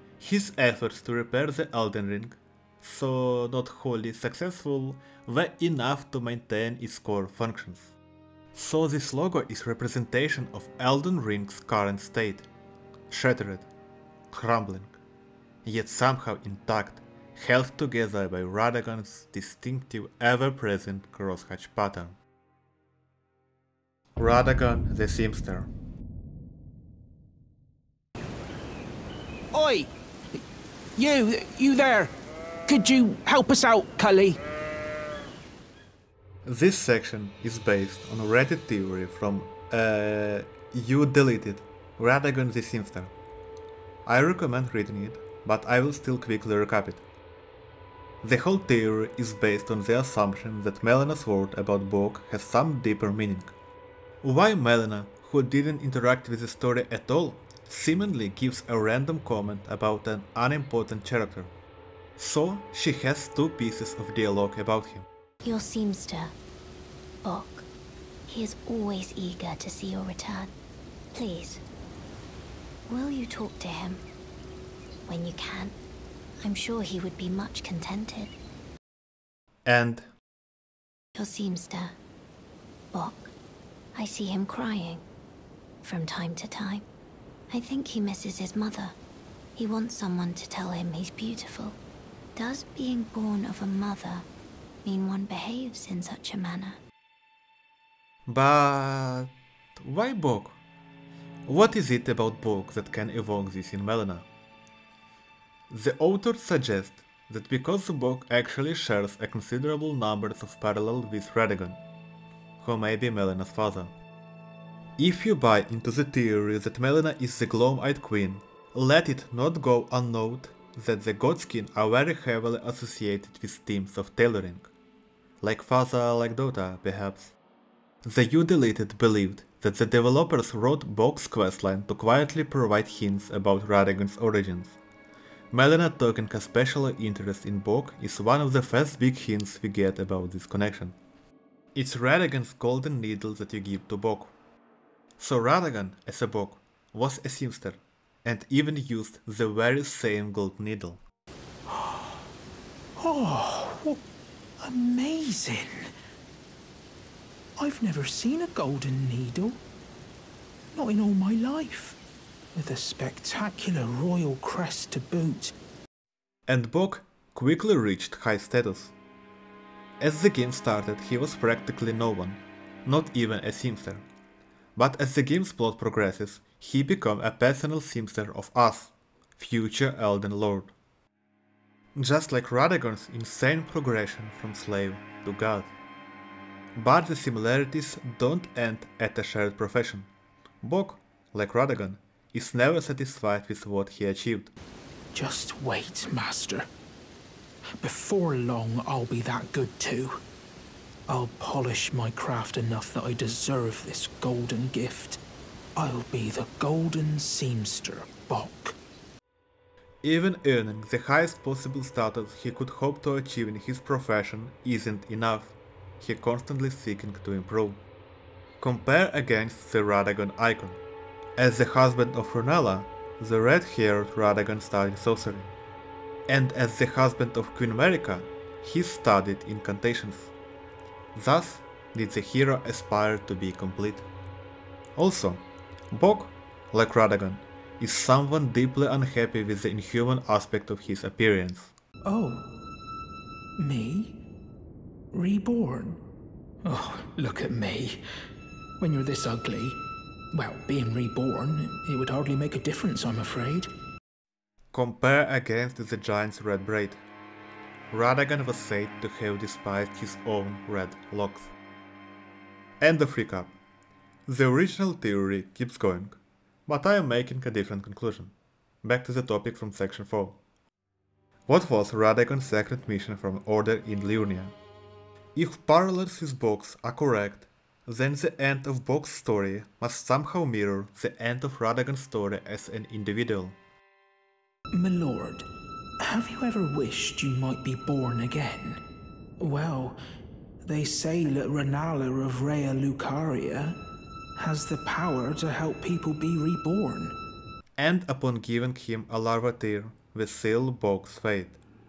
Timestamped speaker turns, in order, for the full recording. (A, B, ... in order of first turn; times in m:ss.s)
0:00.2-0:08.0 A
0:08.5-0:12.5 A
0:13.1-0:13.7 A
0:14.3-0:15.0 A
0:15.6-0:22.2 A
0:24.2-0:25.7 A
0:29.5-0:29.9 B
0:31.0-0:32.1 B
0:32.7-0:34.4 B
0:36.4-0:43.1 A
0:44.1-0:47.0 A
0:48.2-0:53.5 A
0:54.2-1:01.5 A
1:02.2-1:05.1 A
1:05.4-1:06.3 C
1:07.2-1:07.7 C
1:08.3-1:10.5 C
1:11.1-1:11.6 C
1:12.9-1:14.0 C
1:15.1-1:15.8 C
1:16.4-1:18.4 C
1:19.7-1:20.1 A
1:21.2-1:22.0 C
1:22.9-1:23.3 C
1:24.0-1:25.0 C
1:25.8-1:26.9 C
1:27.5-1:29.0 C
1:29.6-1:31.8 C
1:32.4-1:34.3 C
1:34.8-1:36.8 C
1:38.3-1:40.6 A
1:41.5-1:44.3 A
1:45.7-1:51.8 A
1:52.6-1:53.9 A
1:55.0-2:04.7 A
2:05.4-2:07.4 A
2:08.0-2:14.8 A
2:15.5-2:21.0 A
2:21.8-2:24.3 A
2:25.2-2:31.0 A
2:31.7-2:32.2 B
2:33.0-2:34.0 B
2:34.6-2:35.9 B
2:37.6-2:39.6 B
2:40.7-2:42.0 B
2:42.6-2:45.5 B
2:46.5-2:48.9 A
2:50.0-2:54.0 A
2:54.8-3:00.7 A
3:02.0-3:05.7 A
3:06.8-3:10.1 A
3:10.6-3:14.5 A
3:15.1-3:16.7 B
3:17.8-3:20.2 B
3:21.1-3:25.2 B
3:25.8-3:28.8 B
3:30.0-3:37.8 A
3:38.6-3:40.8 A
3:41.4-3:45.5 A
3:46.3-3:50.3 A
3:51.2-3:54.1 A
3:55.0-4:01.7 A
4:02.1-4:02.5 B
4:03.6-4:04.2 B
4:05.1-4:06.0 B
4:06.6-4:08.0 B
4:08.8-4:09.8 B
4:10.3-4:13.7 B
4:14.7-4:17.0 A
4:17.9-4:21.5 A
4:22.8-4:23.6 A
4:24.3-4:30.4 A
4:31.5-4:34.5 A
4:35.4-4:43.6 A
4:44.7-4:45.5 B
4:46.0-4:48.8 B
4:49.4-4:50.0 B
4:50.6-4:53.8 B
4:54.4-4:57.2 B
4:57.8-5:01.6 A